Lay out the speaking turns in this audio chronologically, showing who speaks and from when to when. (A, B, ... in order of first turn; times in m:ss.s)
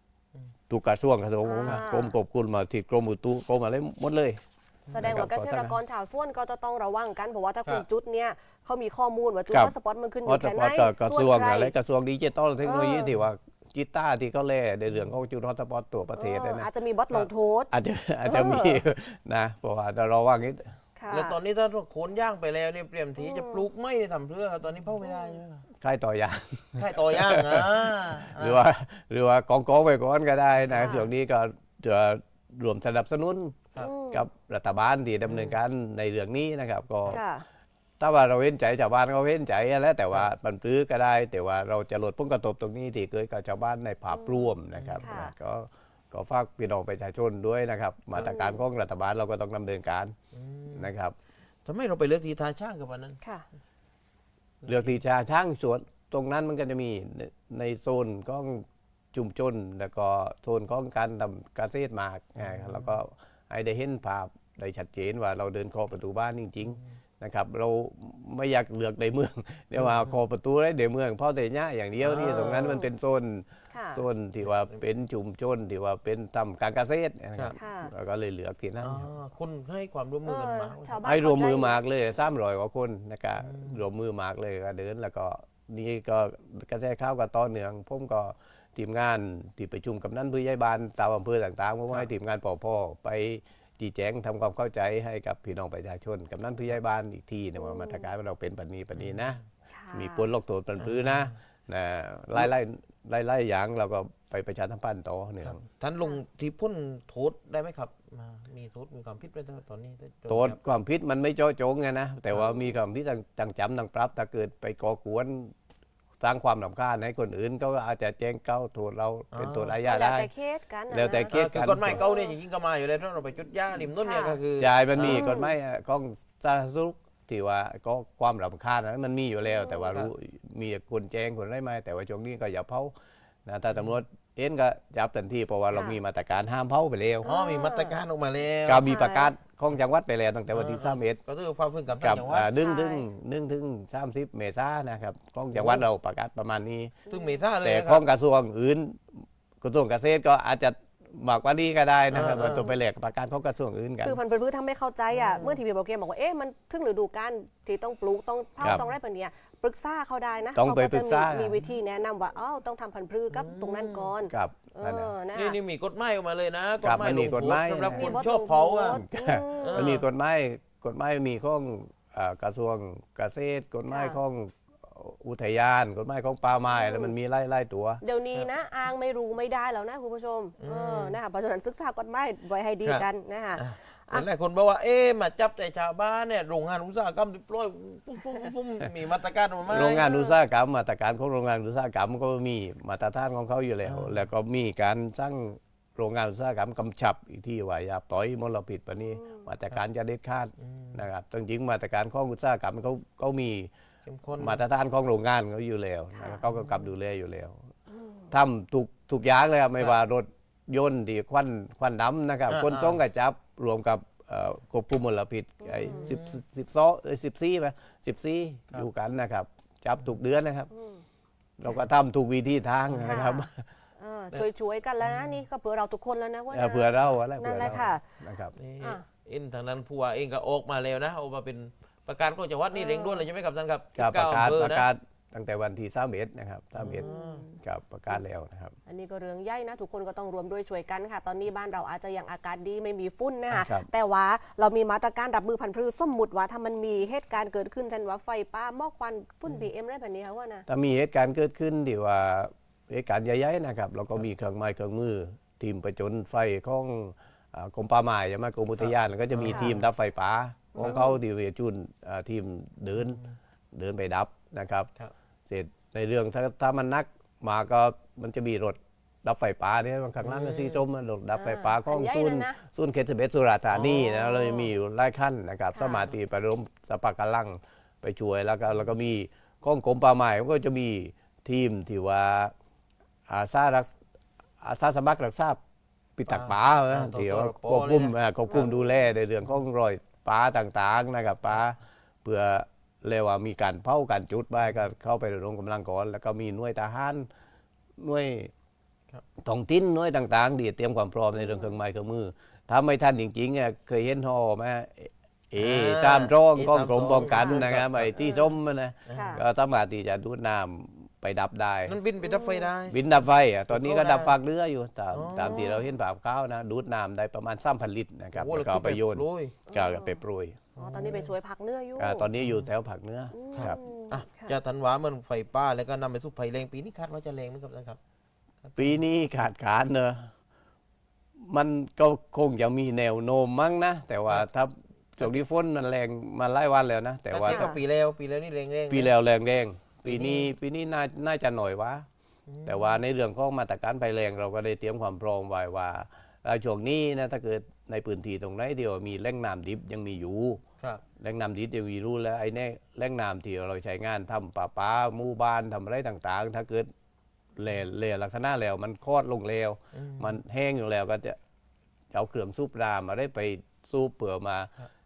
0:00.7-0:04.4 A
0:01.4-0:02.2 B
0:04.9-0:05.3 C
0:04.9-0:11.7 B
0:05.0-0:05.8 A
0:10.2-0:16.7 A
0:12.6-0:13.1 B
0:14.9-0:15.2 C
0:16.1-0:17.7 B
0:17.7-0:20.7 A
0:18.2-0:18.8 B
0:21.0-0:21.4 B
0:21.1-0:25.6 C
0:23.2-0:23.6 B
0:25.0-0:25.4 B
0:25.8-0:37.2 A
0:26.8-0:28.6 C
0:30.7-0:30.9 C
0:30.7-0:31.1 B
0:33.8-0:34.2 B
0:35.2-0:35.6 C
0:37.1-0:37.4 B
0:38.0-0:50.2 A
0:44.1-0:45.3 B
0:44.8-0:45.1 C
0:48.2-0:48.5 C
0:48.2-0:48.6 B
0:50.3-0:50.9 C
0:50.7-0:51.2 A
0:51.7-0:53.2 C
0:54.6-0:55.0 C
0:54.6-1:19.1 A
1:02.4-1:03.0 C
1:09.8-1:10.1 C
1:12.0-1:12.8 C
1:12.5-1:12.9 B
1:13.7-1:14.0 B
1:14.4-1:14.8 C
1:17.6-1:17.9 B
1:18.8-1:21.0 C
1:20.2-1:21.8 B
1:21.0-1:39.4 A
1:23.4-1:23.8 C
1:37.6-1:38.1 B
1:38.9-1:39.4 C
1:39.7-1:40.3 B
1:39.9-1:45.6 A
1:40.8-1:41.4 C
1:45.4-1:50.6 C
1:50.3-1:55.5 A
1:56.2-2:00.3 A
1:59.3-1:59.8 C
1:59.8-2:01.3 B
2:00.9-2:02.0 A
2:01.3-2:05.3 C
2:01.9-2:02.4 B
2:04.0-2:04.4 B
2:04.6-2:12.9 A
2:05.1-2:05.5 B
2:09.8-2:10.1 C
2:13.5-2:17.3 A
2:15.7-2:16.0 B
2:17.2-2:18.8 C
2:17.2-2:18.0 B
2:18.6-2:21.2 A
2:18.8-2:19.3 B
2:20.5-2:22.5 C
2:22.0-2:27.0 A
2:22.6-2:23.1 B
2:25.5-2:25.9 C
2:27.1-2:27.4 B
2:27.1-2:28.0 C
2:27.6-2:34.2 A
2:32.1-2:32.7 C
2:34.0-2:45.6 B
2:35.1-2:35.6 C
2:40.6-2:41.6 A
2:43.3-2:44.1 C
2:44.3-2:45.1 A
2:45.3-2:49.0 C
2:46.8-2:48.2 A
2:47.9-2:50.0 B
2:48.8-2:58.0 A
2:49.6-2:50.1 C
2:53.9-2:54.2 B
2:56.7-2:57.1 B
2:58.0-3:04.3 B
3:00.6-3:01.2 C
3:03.6-3:10.2 C
3:09.7-3:23.7 A
3:10.1-3:10.4 B
3:13.8-3:14.3 C
3:19.1-3:19.5 B
3:20.6-3:21.0 C
3:24.1-3:24.6 C
3:24.4-3:27.7 A
3:26.1-3:26.4 B
3:26.5-3:26.9 C
3:27.9-3:28.3 B
3:28.3-3:40.7 A
3:32.5-3:33.0 C
3:35.6-3:36.2 B
3:35.8-3:36.4 C
3:40.7-3:41.0 B
3:41.6-3:43.7 A
3:42.9-3:43.2 C
3:43.0-3:43.4 B
3:44.0-3:48.0 B
3:45.0-3:45.4 C
3:46.5-3:48.6 A
3:48.6-3:54.9 C
3:52.7-3:53.2 B
3:54.0-3:58.8 A
3:56.8-3:57.4 C
3:57.0-3:57.6 B
3:58.9-4:10.7 B
4:03.5-4:03.9 A
4:10.7-4:23.2 A
4:18.8-4:19.8 C
4:19.5-4:19.8 B
4:20.8-4:21.2 B
4:20.8-4:21.1 C
4:23.0-4:23.4 C
4:23.7-4:24.9 A
4:25.5-4:42.5 A
4:30.2-4:30.8 C
4:31.3-4:32.6 B
4:33.7-4:34.2 C
4:34.3-4:34.7 B
4:35.8-4:36.1 B
4:43.3-4:44.0 A
4:44.6-4:45.6 A
4:46.2-4:57.3 A
4:46.3-4:48.7 C
4:58.0-4:58.5 A
4:59.4-5:12.0 A
5:01.4-5:01.7 B
5:05.6-5:08.2 C
5:07.2-5:07.6 B
5:08.2-5:08.5 B
5:09.1-5:09.4 C
5:09.1-5:09.4 B
5:11.9-5:13.0 C
5:12.2-5:12.7 B
5:12.9-5:20.6 A
5:13.7-5:14.4 C
5:15.1-5:15.8 C
5:15.4-5:15.8 B
5:18.4-5:19.6 C
5:19.7-5:20.2 B
5:20.8-5:21.3 C
5:20.8-5:22.3 B
5:22.0-5:23.8 A
5:22.4-5:22.7 C
5:23.3-5:24.6 B
5:23.5-5:28.0 C
5:28.7-5:29.0 C
5:28.8-5:30.3 A
5:31.4-5:37.7 A
5:37.3-5:39.1 C
5:37.5-5:37.8 B
5:38.9-5:42.1 A
5:40.0-5:40.5 C
5:42.5-5:43.0 C
5:42.6-5:50.6 A
5:51.2-5:56.9 A
5:57.6-6:01.4 A
5:59.9-6:00.4 C
6:02.1-6:04.7 A